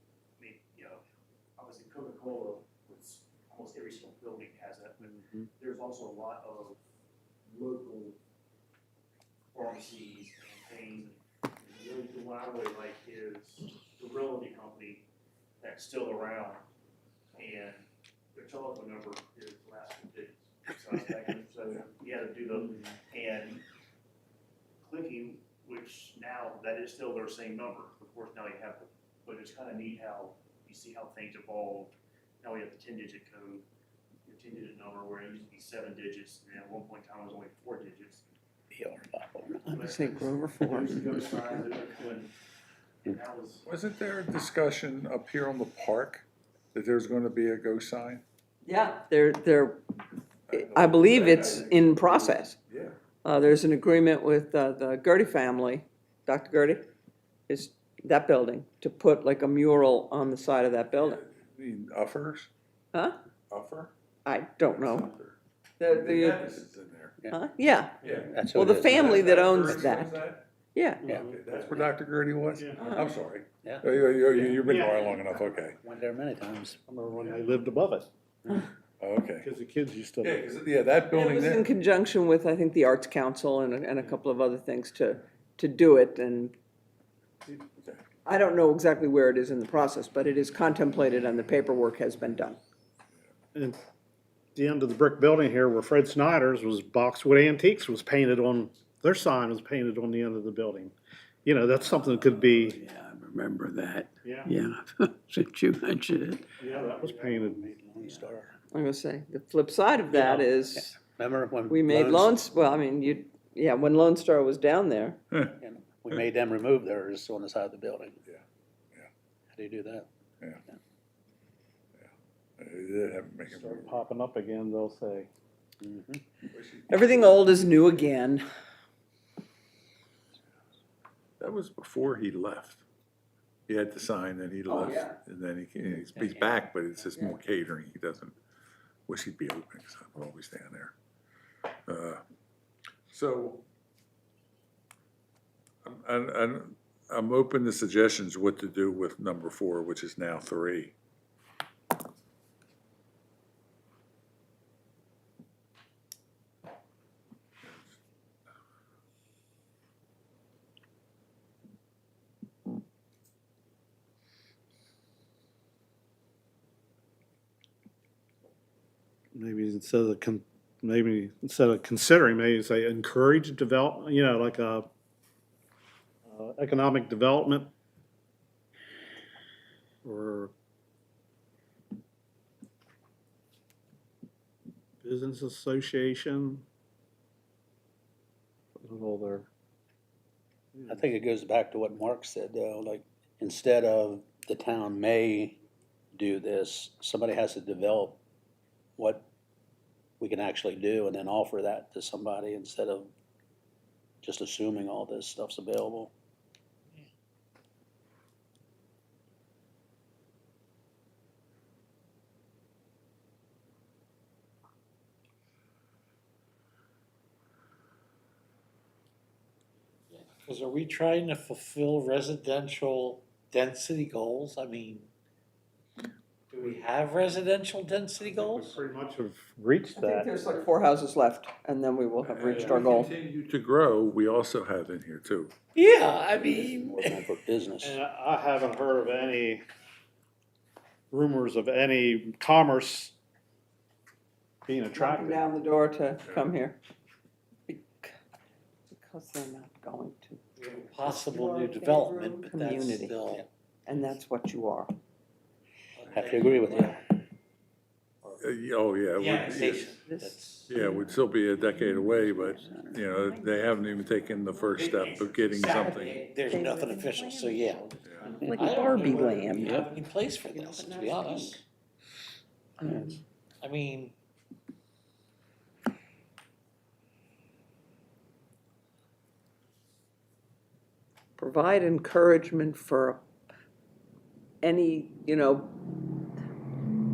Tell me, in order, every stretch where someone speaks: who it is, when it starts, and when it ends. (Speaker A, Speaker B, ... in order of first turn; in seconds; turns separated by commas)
Speaker A: 0.4-1.0, Speaker A: 1.6-6.8, Speaker B: 5.0-5.5, Speaker A: 7.5-8.2, Speaker A: 9.5-15.1, Speaker A: 15.6-16.6, Speaker A: 17.4-23.6, Speaker B: 22.6-22.9, Speaker A: 24.8-33.7, Speaker A: 34.2-38.3, Speaker C: 38.7-39.9, Speaker A: 39.7-42.3, Speaker D: 39.7-41.1, Speaker A: 43.1-43.6, Speaker E: 43.6-48.2, Speaker D: 48.6-49.8, Speaker E: 50.5-53.0, Speaker D: 50.5-52.6, Speaker D: 53.2-56.9, Speaker D: 57.5-61.2, Speaker E: 61.0-62.5, Speaker E: 63.5-63.9, Speaker D: 64.2-65.1, Speaker E: 64.6-67.2, Speaker D: 65.8-66.6, Speaker D: 67.3-68.0, Speaker E: 68.0-70.5, Speaker C: 68.3-69.7, Speaker D: 68.5-71.1, Speaker B: 71.0-71.4, Speaker C: 71.0-71.3, Speaker E: 71.1-75.8, Speaker D: 72.8-73.2, Speaker C: 73.6-76.8, Speaker B: 74.6-75.0, Speaker B: 76.9-78.1, Speaker E: 79.0-79.5, Speaker B: 79.4-80.5, Speaker E: 80.2-81.7, Speaker D: 81.1-86.5, Speaker E: 87.6-88.0, Speaker D: 88.2-92.6, Speaker B: 94.6-100.9, Speaker B: 101.5-102.8, Speaker C: 101.9-108.5, Speaker B: 104.2-104.5, Speaker B: 106.6-107.7, Speaker D: 108.7-111.0, Speaker C: 110.1-112.4, Speaker D: 111.7-115.2, Speaker C: 115.6-118.2, Speaker C: 119.5-120.1, Speaker E: 122.0-123.9, Speaker B: 123.5-125.3, Speaker C: 125.8-126.2, Speaker E: 126.5-127.5, Speaker D: 126.9-128.4, Speaker E: 131.4-132.8, Speaker E: 133.7-138.4, Speaker D: 134.7-135.2, Speaker F: 136.1-136.5, Speaker E: 139.1-140.9, Speaker E: 141.9-142.2, Speaker E: 143.1-143.7, Speaker E: 145.8-150.9, Speaker E: 157.7-158.0, Speaker B: 169.3-174.9, Speaker B: 176.3-177.7, Speaker B: 180.0-180.5, Speaker B: 185.0-186.6, Speaker B: 188.8-189.5, Speaker B: 190.8-191.1, Speaker C: 190.9-195.6, Speaker C: 196.1-198.2, Speaker C: 199.0-199.3, Speaker C: 200.2-203.1, Speaker C: 204.2-206.1, Speaker F: 220.1-225.1, Speaker F: 226.5-228.8, Speaker B: 226.5-226.8, Speaker B: 228.2-230.3, Speaker D: 230.0-233.1, Speaker E: 232.2-235.5, Speaker B: 232.5-232.8, Speaker F: 235.8-237.3, Speaker C: 236.3-238.0, Speaker B: 237.8-239.6, Speaker B: 241.1-243.2, Speaker B: 244.7-245.6, Speaker D: 244.9-246.8, Speaker D: 247.7-248.1, Speaker D: 248.9-250.4, Speaker F: 250.6-253.5, Speaker D: 251.0-253.2, Speaker D: 253.9-254.9, Speaker F: 256.0-257.0, Speaker C: 256.1-257.2, Speaker E: 258.4-260.0, Speaker F: 259.2-260.4, Speaker D: 260.1-263.6, Speaker E: 260.7-266.2, Speaker D: 264.3-264.6, Speaker F: 264.7-271.6, Speaker D: 265.6-269.9, Speaker E: 268.1-268.3, Speaker C: 268.4-268.8, Speaker C: 269.6-269.9, Speaker D: 270.5-271.6, Speaker D: 272.8-273.2, Speaker C: 272.8-273.2, Speaker F: 273.6-274.1, Speaker D: 281.4-283.2, Speaker D: 284.6-285.7